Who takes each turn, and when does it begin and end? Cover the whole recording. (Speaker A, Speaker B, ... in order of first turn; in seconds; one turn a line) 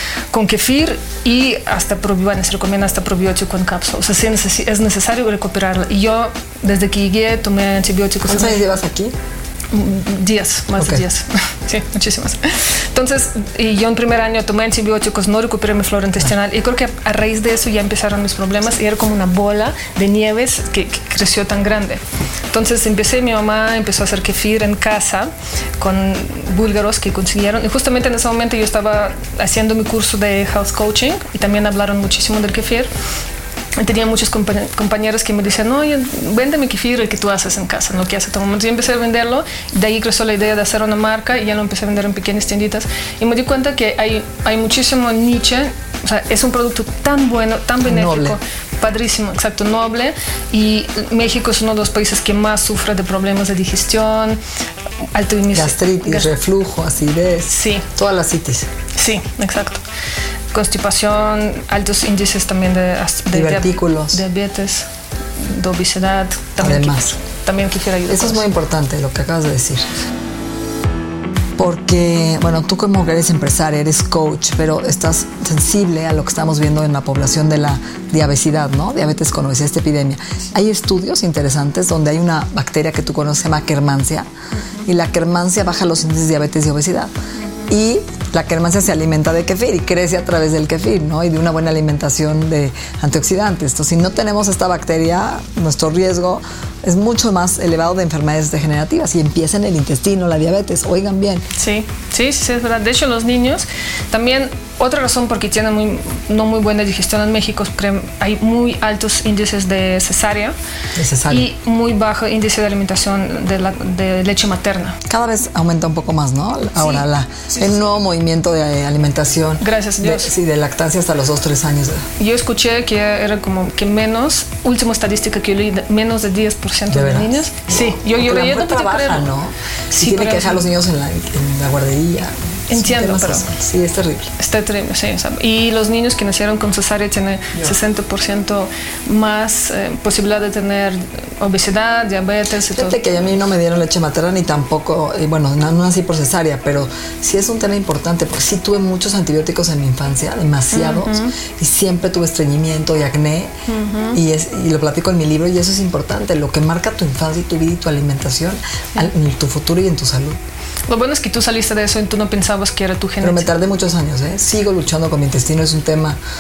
Speaker A: 0.3-8.6
Speaker B: 8.2-9.2
Speaker A: 9.7-32.9
Speaker B: 10.8-11.1
Speaker A: 33.8-54.4
Speaker B: 47.8-48.4
Speaker A: 55.1-56.3
Speaker B: 55.5-58.7
Speaker A: 57.5-57.9
Speaker A: 58.9-59.8
Speaker A: 60.5-68.5
Speaker B: 63.3-64.2
Speaker B: 66.6-67.2
Speaker B: 68.1-69.9
Speaker B: 71.6-84.3
Speaker A: 84.5-84.9
Speaker B: 84.8-87.1
Speaker A: 87.4-87.7
Speaker B: 87.7-101.5
Speaker A: 101.5-110.5
Speaker B: 111.0-111.5
Speaker A: 111.3-115.0
Speaker B: 115.1-122.1
Speaker A: 116.8-117.7
Speaker A: 119.6-120.3
Speaker A: 122.2-129.3
Speaker B: 126.9-134.3
Speaker A: 129.9-130.7
Speaker A: 132.7-133.5
Speaker A: 134.4-143.0
Speaker B: 142.7-153.6
Speaker A: 150.7-151.3
Speaker A: 153.7-154.2
Speaker B: 154.1-160.4
Speaker A: 160.9-163.5
Speaker B: 163.2-166.2